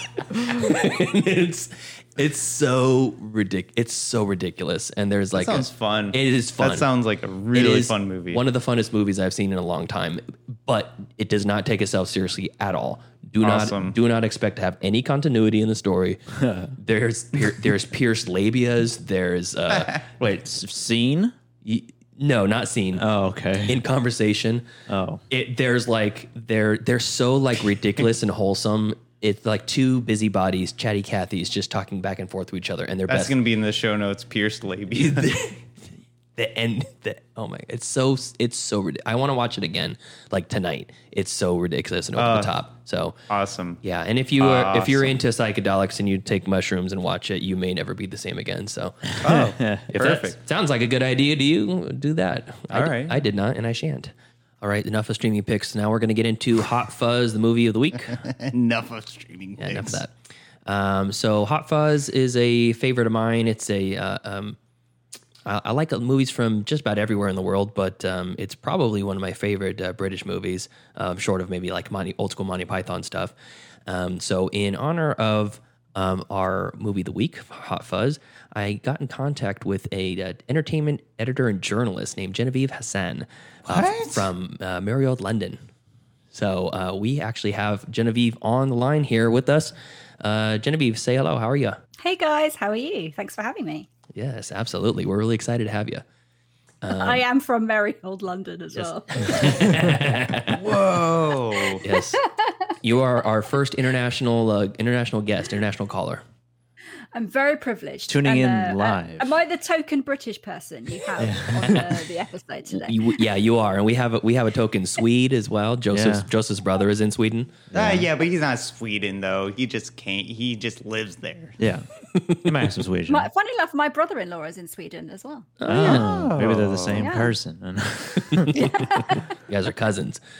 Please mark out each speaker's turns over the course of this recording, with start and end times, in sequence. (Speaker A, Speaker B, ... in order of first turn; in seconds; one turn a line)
Speaker A: 0.3-6.9
Speaker B: 5.3-8.4
Speaker A: 7.5-16.2
Speaker B: 13.4-14.0
Speaker C: 16.4-16.7
Speaker A: 16.8-20.0
Speaker C: 20.2-21.3
Speaker A: 21.6-23.1
Speaker C: 22.9-23.8
Speaker A: 23.6-24.7
Speaker C: 24.9-25.2
Speaker A: 25.3-33.4
Speaker B: 33.1-35.4
Speaker A: 34.9-35.6
Speaker A: 36.4-43.1
Speaker B: 42.1-42.5
Speaker B: 43.3-43.8
Speaker A: 43.8-49.1
Speaker B: 44.4-45.1
Speaker C: 49.2-50.2
Speaker B: 49.2-50.3
Speaker A: 49.9-58.2
Speaker B: 52.7-53.2
Speaker B: 58.2-60.0
Speaker A: 59.6-60.1
Speaker A: 60.6-64.6
Speaker A: 65.4-73.3
Speaker A: 73.9-85.6
Speaker B: 83.7-84.3
Speaker A: 86.3-91.8
Speaker D: 92.0-93.9
Speaker A: 94.1-96.0
Speaker A: 96.8-97.2
Speaker D: 96.9-99.8
Speaker A: 98.7-100.6
Speaker B: 100.5-101.8
Speaker D: 101.7-102.5
Speaker A: 101.8-102.2
Speaker A: 102.8-106.2
Speaker D: 107.1-113.2
Speaker C: 108.1-109.3
Speaker C: 111.2-111.8
Speaker A: 112.7-117.7
Speaker C: 115.9-116.3
Speaker C: 117.7-118.1
Speaker B: 117.7-121.6
Speaker C: 121.6-121.8
Speaker A: 122.1-122.5
Speaker C: 122.4-123.3
Speaker D: 123.1-125.5
Speaker A: 125.6-126.3
Speaker C: 125.7-128.6
Speaker B: 125.8-127.1
Speaker D: 127.0-127.4
Speaker A: 128.3-128.7
Speaker D: 128.6-129.2
Speaker A: 129.5-130.2